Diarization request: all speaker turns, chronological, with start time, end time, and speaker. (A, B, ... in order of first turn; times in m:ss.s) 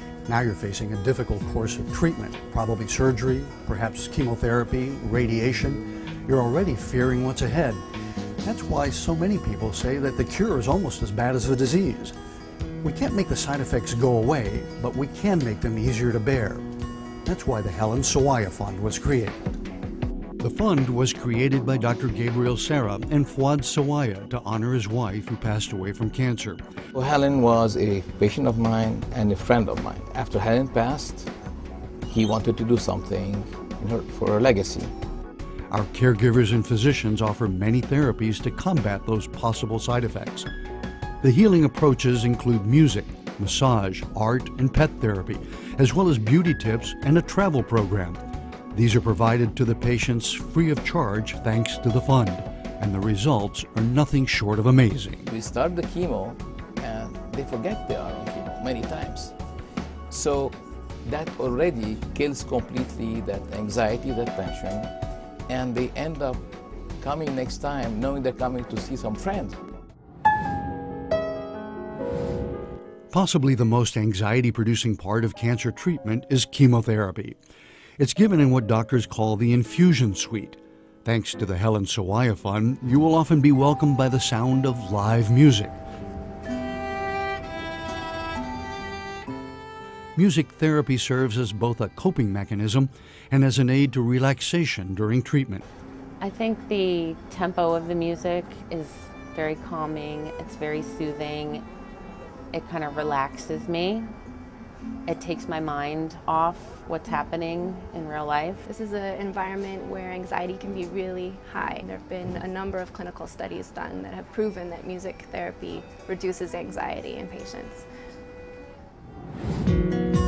0:00.2-0:07.8 A
0:08.4-0:12.1 A
0:12.8-0:16.6 A
0:17.2-0:19.4 A
0:20.4-0:26.6 A
0:26.9-0:31.3 B
0:32.1-0:34.9 B
0:35.7-0:40.5 A
0:41.2-0:48.2 A
0:48.7-0:55.3 A
0:55.3-0:59.3 B
1:00.1-1:04.9 B
1:05.5-1:06.4 B
1:07.0-1:09.6 B
1:13.1-1:17.4 A
1:18.0-1:25.8 A
1:30.2-1:35.6 A
1:36.2-1:41.6 C
1:42.5-1:44.1 C
1:45.0-1:48.6 C
1:48.7-1:57.8 D